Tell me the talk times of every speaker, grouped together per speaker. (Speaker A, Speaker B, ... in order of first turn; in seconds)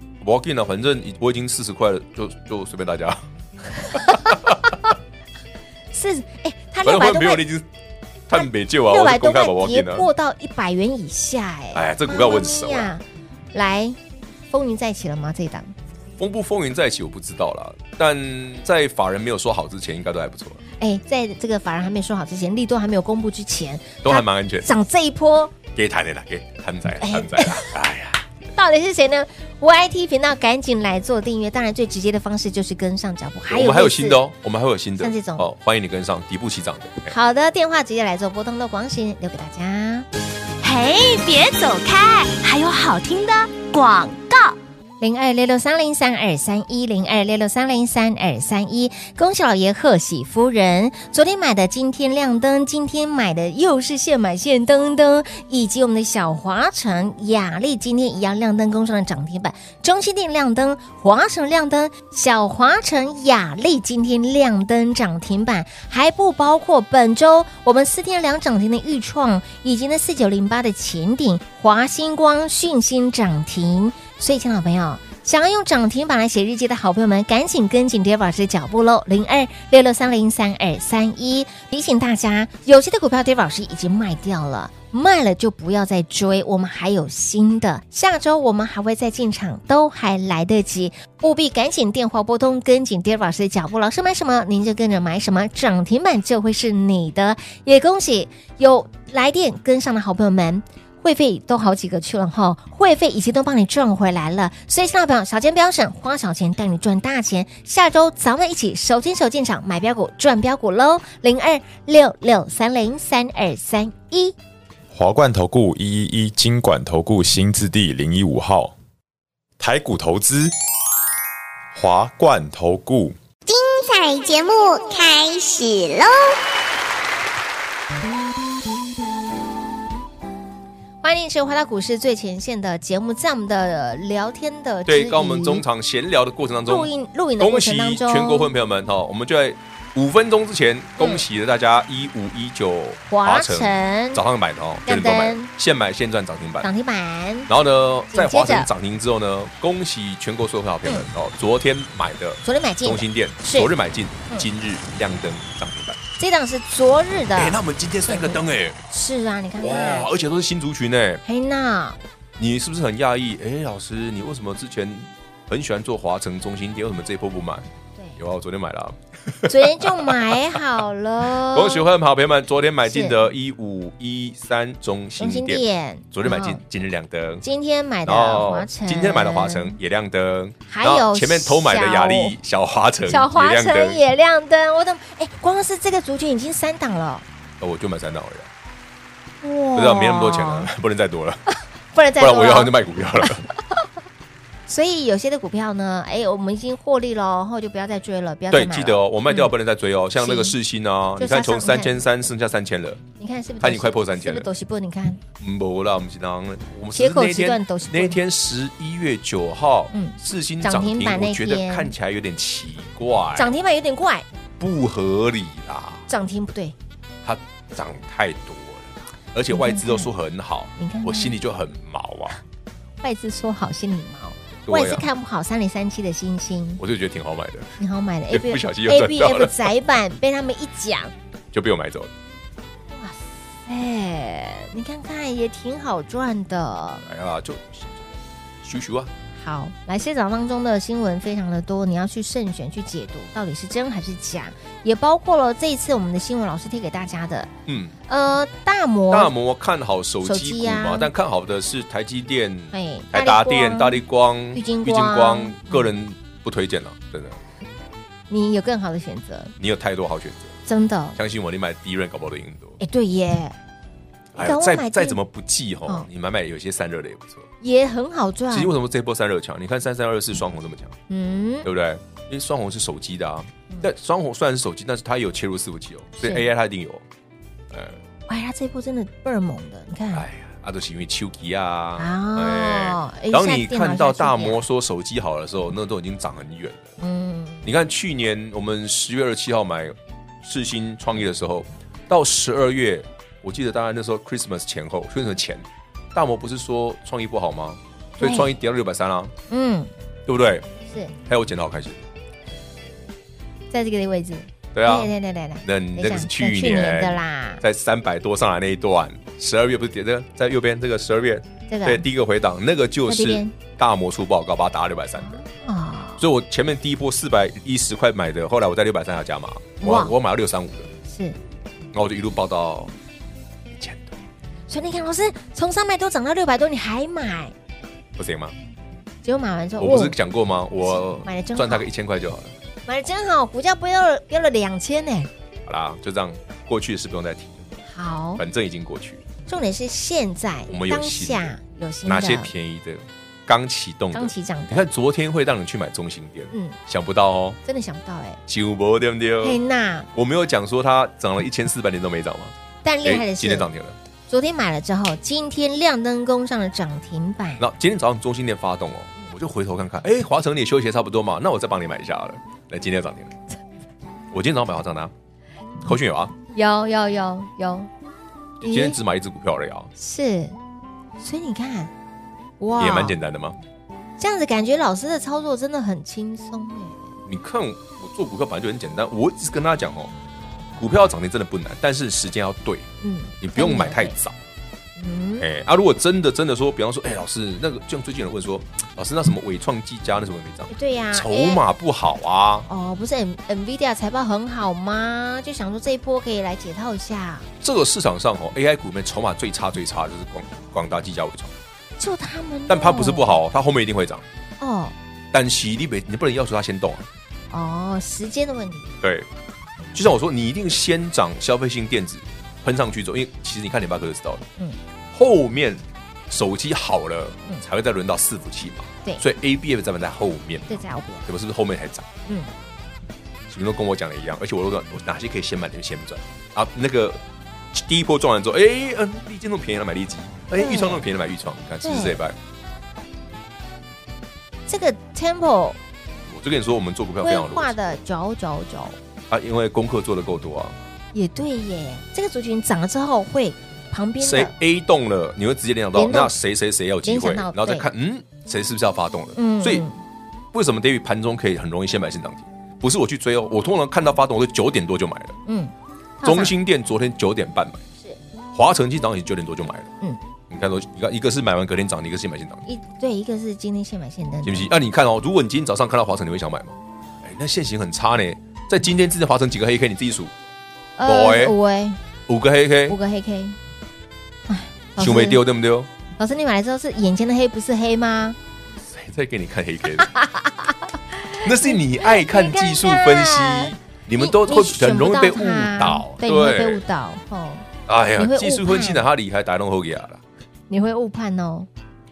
Speaker A: 0.2-3.2, 3.9-4.6, 6.8-7.7, 8.3-10.1, 11.7-12.9, 16.2-20.6, 24.0-24.7, 25.7-28.2, 33.5-37.1, 134.8-146.7, 147.5-156.0, 157.3-158.8, 159.6-161.2, 162.4-170.3, 171.3-177.4, 178.0-184.0, 187.6-188.5, 189.7-191.4, 192.2-193.5, 198.5-203.0, 203.6-204.5, 205.4-213.5, 214.6-216.1, 217.2-222.3, 224.7-225.1, 226.8-227.7, 228.3-229.7, 231.5-232.1, 237.0-238.1, 238.6-239.1, 247.7-247.9, 249.1-257.4, 259.6-260.5, 261.1-262.8, 264.3-267.4, 268.5-270.9, 271.6-277.0, 277.7-278.0, 280.1-286.9, 287.6-299.3, 300.3-300.6, 301.2-302.0, 304.7-305.1, 305.6-315.4, 316.2-320.9, 321.9-322.9, 323.7-324.2, 328.2-328.5, 329.8-332.5, 335.6-337.7, 338.4-339.2, 340.7-347.6, 348.5-349.6, 350.1-354.0, 357.6-363.3, 364.3-365.1, 365.8-366.3, 368.6-369.9, 372.8-373.6, 377.2-380.1, 380.8-382.9, 383.4-384.4, 385.4-392.7, 397.6-401.5, 402.7-404.2, 405.3-407.1, 409.0-409.3, 409.9-414.4, 415.1-422.1, 423.5-427.2, 427.7-432.4, 436.3-437.9, 439.3-440.8, 444.2-449.9, 450.5-455.3, 456.2-457.8, 458.5-459.9, 460.5-462.6, 464.4-470.3, 471.0-471.6, 472.3-473.0, 475.0-475.9, 478.9-480.1, 481.4-486.8, 487.9-490.2
Speaker B: 4.0-4.3, 5.9-7.5, 8.3-14.0, 14.5-15.7, 20.8-25.5, 27.0-27.7, 28.5-34.2, 35.0-35.5, 37.1-40.0, 45.0-114.3, 131.0-135.6, 136.7-138.5, 141.0-141.2, 143.1-144.2, 144.8-145.5, 146.6-147.5, 148.1-148.7, 152.4-153.7, 156.2-160.1, 161.2-162.0, 169.5-171.9, 172.8-173.3, 175.2-176.6, 177.4-179.8, 180.7-182.3, 183.1-187.2, 189.4-190.7, 191.9-192.7, 194.7-199.5, 200.2-200.6, 201.2-202.0, 203.2-205.2, 206.9-208.2, 209.9-211.9, 213.3-214.2, 216.1-216.7, 219.5-220.1, 220.8-221.3, 223.0-226.8, 227.8-231.1, 232.9-237.0, 239.4-247.5, 248.1-249.3, 250.2-251.1, 252.7-254.0, 254.5-255.9, 258.3-259.5, 260.6-261.2, 262.8-263.6, 264.4-265.2, 267.6-268.7, 271.1-271.7, 276.2-276.5, 278.3-280.2, 282.0-284.6, 287.0-287.7, 298.2-298.5, 299.5-299.9, 300.9-301.1, 303.7-307.6, 311.7-312.1, 313.1-313.5, 315.2-316.2, 319.8-320.1, 321.0-321.4, 324.7-327.5, 329.2-330.1, 330.8-331.9, 332.9-335.3, 337.9-338.4, 339.5-342.5, 344.1-344.9, 346.5-346.8, 347.6-348.4, 349.4-350.1, 352.8-353.7, 354.3-357.6, 366.5-367.9, 368.6-368.9, 370.0-370.6, 371.2-371.9, 372.6-373.1, 374.2-377.1, 383.0-384.1, 385.0-385.5, 390.7-391.6, 392.7-397.4, 402.0-403.4, 404.6-404.9, 407.5-408.9, 420.7-421.2, 430.6-431.1, 431.8-432.2, 434.7-435.8, 437.2-438.9, 441.1-444.5, 445.9-446.4, 447.0-447.9, 449.4-450.0, 455.5-456.6, 462.7-464.7, 471.0-472.0, 472.9-473.6, 474.5-475.4, 476.2-478.4, 480.0-489.0, 490.7-491.7
Speaker C: 40.6-44.5
Speaker D: 114.9-118.7, 119.6-120.5, 121.7-123.2
Speaker E: 123.5-126.3